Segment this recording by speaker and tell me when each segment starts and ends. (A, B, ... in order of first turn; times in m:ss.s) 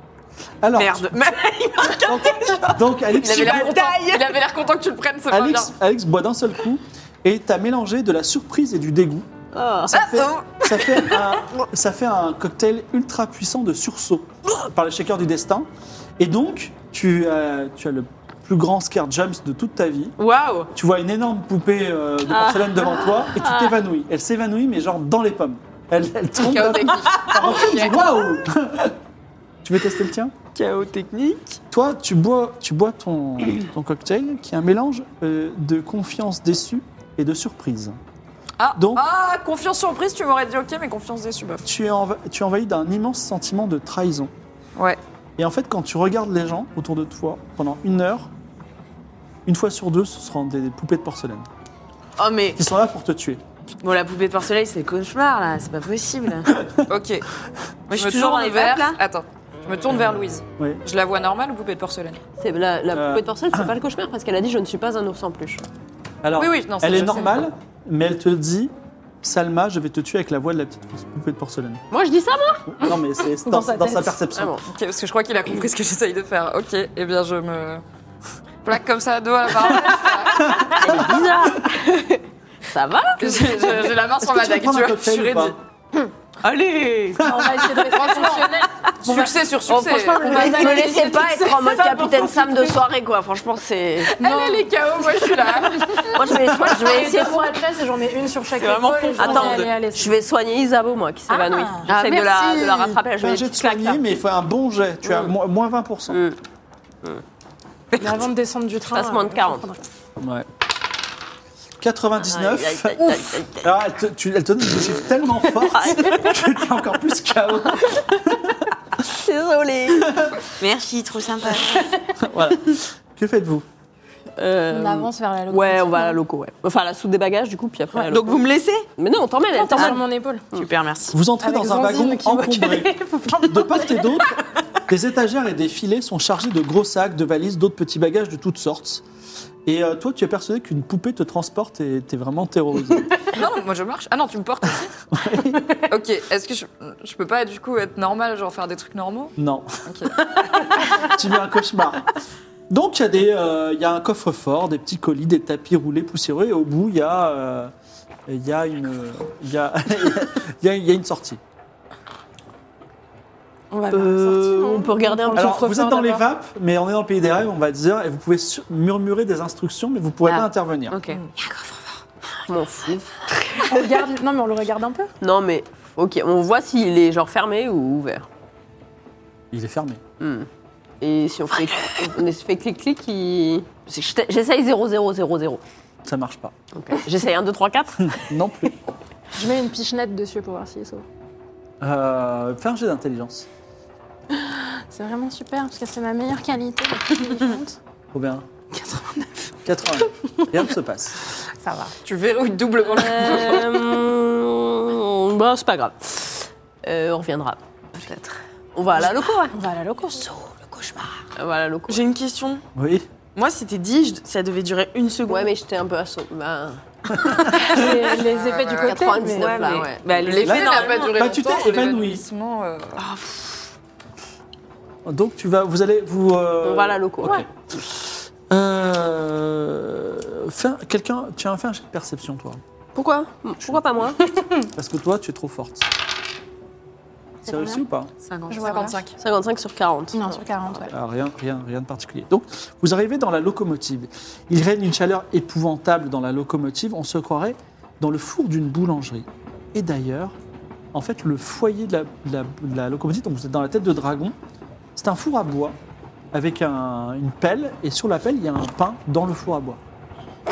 0:00.6-0:01.3 A
0:00.7-0:04.4 B
0:02.0-0:03.9 A
0:03.2-0:05.7 C
0:05.3-0:09.3 A
0:09.5-0:09.9 D
0:09.8-0:20.1 A
0:10.0-0:11.4 B
0:20.2-0:20.7 B
0:20.7-0:28.9 A
0:22.4-0:22.8 B
0:26.4-0:28.0 C
0:27.1-0:27.5 B
0:29.6-0:30.3 A
0:30.5-0:31.6 B
0:31.7-0:38.0 A
0:38.6-0:41.6 C
0:38.8-0:39.0 A
0:41.6-0:44.3 A
0:45.4-0:48.3 A
0:49.4-0:51.5 A
0:52.2-0:52.6 B
0:52.6-0:53.4 A
0:53.8-0:56.5 B
0:56.9-0:57.2 C
0:57.9-0:59.0 B
0:57.9-1:02.2 C
1:02.4-1:05.6 D
1:02.9-1:03.7 A
1:06.2-1:11.8 A
1:06.4-1:07.4 C
1:11.9-1:12.7 D
1:12.7-1:14.5 A
1:13.4-1:14.2 E
1:14.3-1:14.6 D
1:14.6-1:17.8 C
1:18.6-1:21.0 C
1:20.5-1:21.2 A
1:20.5-1:23.9 D
1:23.2-1:25.6 C
1:24.2-1:25.6 A
1:26.4-1:27.3 B
1:27.2-1:27.6 A
1:27.2-1:32.8 E
1:27.9-1:30.9 C
1:29.9-1:34.2 D
1:34.2-1:36.1 C
1:34.2-1:40.2 E
1:36.0-1:37.5 D
1:38.5-1:39.7 B
1:39.2-1:44.0 D
1:41.3-1:41.9 E
1:41.9-1:42.9 C
1:43.0-1:46.2 A
1:45.0-1:45.3 D
1:46.1-1:46.4 D
1:48.0-1:49.8 E
1:48.9-1:49.7 D
1:50.2-1:50.5 A
1:51.8-1:58.6 A
1:52.2-1:53.8 D
1:55.6-1:56.4 D
1:59.1-2:00.3 D
1:59.9-2:00.4 A
2:00.6-2:01.9 B
2:02.2-2:03.6 A
2:04.4-2:08.4 D
2:04.7-2:06.2 E
2:08.1-2:08.9 B
2:09.0-2:10.6 D
2:09.5-2:10.4 E
2:10.5-2:11.2 B
2:11.1-2:19.0 A
2:11.4-2:14.2 E
2:19.6-2:23.2 A
2:23.3-2:24.9 C
2:25.1-2:25.7 A
2:25.9-2:29.3 C
2:29.4-2:29.7 A
2:29.8-2:30.7 C
2:31.0-2:32.1 A
2:32.7-2:37.7 A
2:38.3-2:41.4 A
2:43.7-2:46.2 E
2:43.9-2:45.6 D
2:45.3-2:51.0 A
2:50.9-2:51.2 B
2:52.4-2:53.9 D
2:53.6-2:55.1 E
2:55.2-2:58.3 D
2:59.5-3:00.0 A
3:00.2-3:00.5 D
3:01.0-3:05.6 D
3:06.0-3:06.5 A
3:06.7-3:08.2 D
3:08.0-3:08.7 A
3:09.3-3:11.0 E
3:11.8-3:13.5 A
3:14.3-3:17.8 E
3:18.1-3:18.4 A
3:18.7-3:19.5 E
3:19.6-3:21.2 A
3:21.5-3:22.0 E
3:22.0-3:23.8 C
3:22.9-3:29.5 D
3:29.5-3:30.4 E
3:31.4-3:32.0 D
3:31.9-3:32.6 B
3:32.7-3:33.1 A
3:33.3-3:35.5 B
3:35.3-3:37.5 D
3:37.2-3:37.7 A
3:37.5-3:39.8 E
3:38.2-3:39.2 C
3:38.8-3:40.5 D
3:39.3-3:41.4 B
3:40.2-3:43.0 C
3:40.4-3:42.2 A
3:43.0-3:43.6 B
3:45.0-3:52.6 A
3:46.6-3:47.4 D
3:52.9-3:54.2 D
3:53.6-3:55.9 A
3:57.4-3:58.1 A
3:57.4-3:57.8 E
3:58.2-3:58.9 B
3:58.5-3:59.0 E
3:58.6-3:59.1 C
3:59.2-4:00.4 D
4:00.1-4:00.9 E
4:00.9-4:10.4 A
4:10.9-4:14.4 A
4:14.9-4:15.8 A
4:16.3-4:19.8 A